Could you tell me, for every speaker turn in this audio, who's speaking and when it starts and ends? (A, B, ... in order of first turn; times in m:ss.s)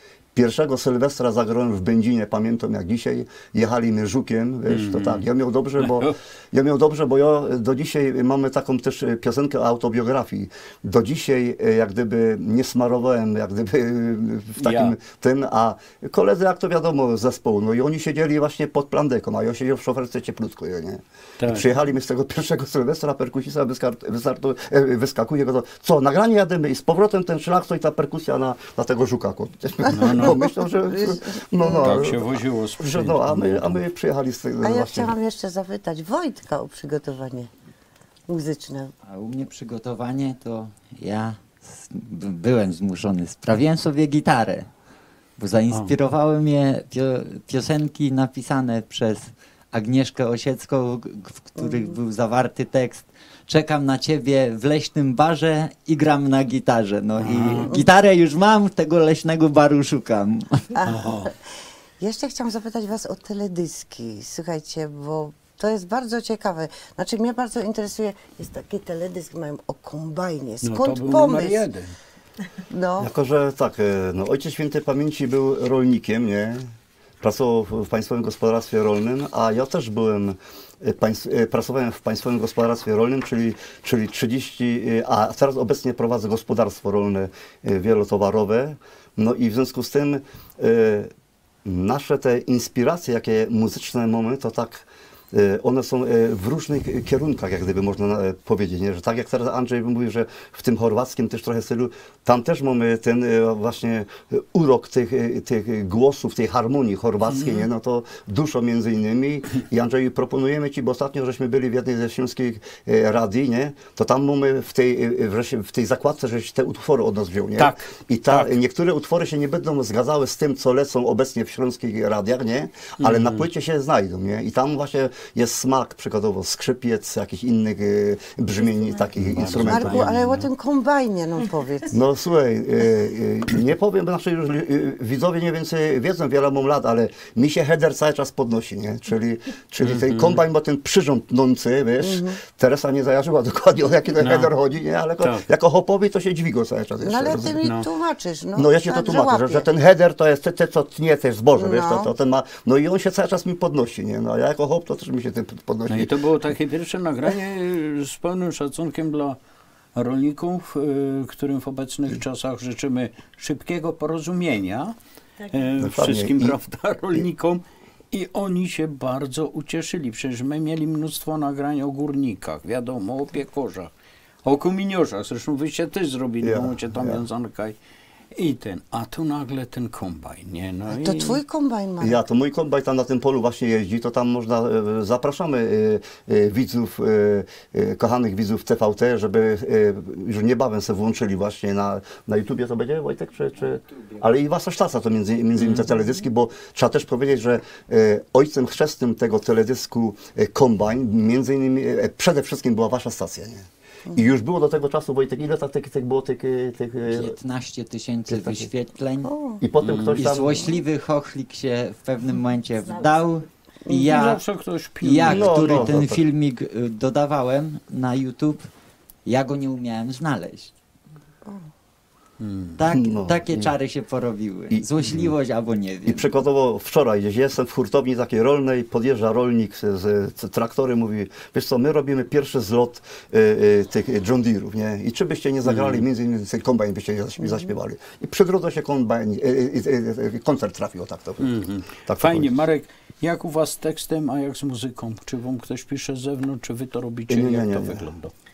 0:00.3-0:32.2 A
0:04.7-0:06.2 B
0:14.6-0:14.9 B
0:21.4-0:21.7 B
0:29.8-0:32.1 C
0:29.9-0:30.4 B
0:31.8-0:33.8 B
0:32.8-0:35.1 A
0:34.6-0:37.5 C
0:38.3-0:38.9 C
0:39.1-0:44.7 D
0:45.4-1:00.7 D
0:51.6-0:52.0 C
0:57.2-0:57.7 B
0:57.5-0:57.9 C
1:00.7-1:01.3 C
1:00.8-1:01.3 B
1:02.0-1:11.6 C
1:10.6-1:11.9 B
1:12.7-1:13.1 C
1:13.0-1:16.6 A
1:17.2-1:31.1 A
1:31.6-2:10.1 A
1:47.3-1:47.6 B
1:57.6-1:58.5 B
2:03.0-2:03.4 B
2:09.2-2:10.5 B
2:09.4-2:11.9 C
2:11.9-2:27.6 A
2:19.8-2:20.4 B
2:22.0-2:22.4 C
2:24.2-2:24.5 B
2:25.2-2:25.4 B
2:27.0-2:29.6 C
2:27.6-2:27.9 B
2:28.5-2:36.1 A
2:31.6-2:32.1 C
2:35.9-2:39.4 B
2:39.9-2:44.9 B
2:45.5-2:53.9 B
2:45.8-2:46.6 A
2:54.4-2:57.8 B
2:56.4-2:57.2 A
2:58.3-3:01.4 B
3:00.9-3:02.2 C
3:02.0-3:27.3 A
3:15.6-3:15.8 B
3:27.1-3:29.3 D
3:28.3-3:28.7 A
3:29.2-3:29.6 C
3:29.6-3:30.7 A
3:29.8-3:30.2 B
3:30.1-3:34.4 D
3:33.9-3:34.2 C
3:34.1-3:36.0 B
3:35.0-3:38.7 D
3:35.2-3:36.2 A
3:39.2-3:40.7 D
3:42.4-3:42.8 B
3:42.8-3:46.2 D
3:42.9-3:43.7 A
3:44.7-3:45.3 A
3:46.0-4:02.5 A
3:55.6-3:56.0 B
3:57.4-3:57.7 C
4:01.4-4:08.3 B
4:07.3-4:08.1 A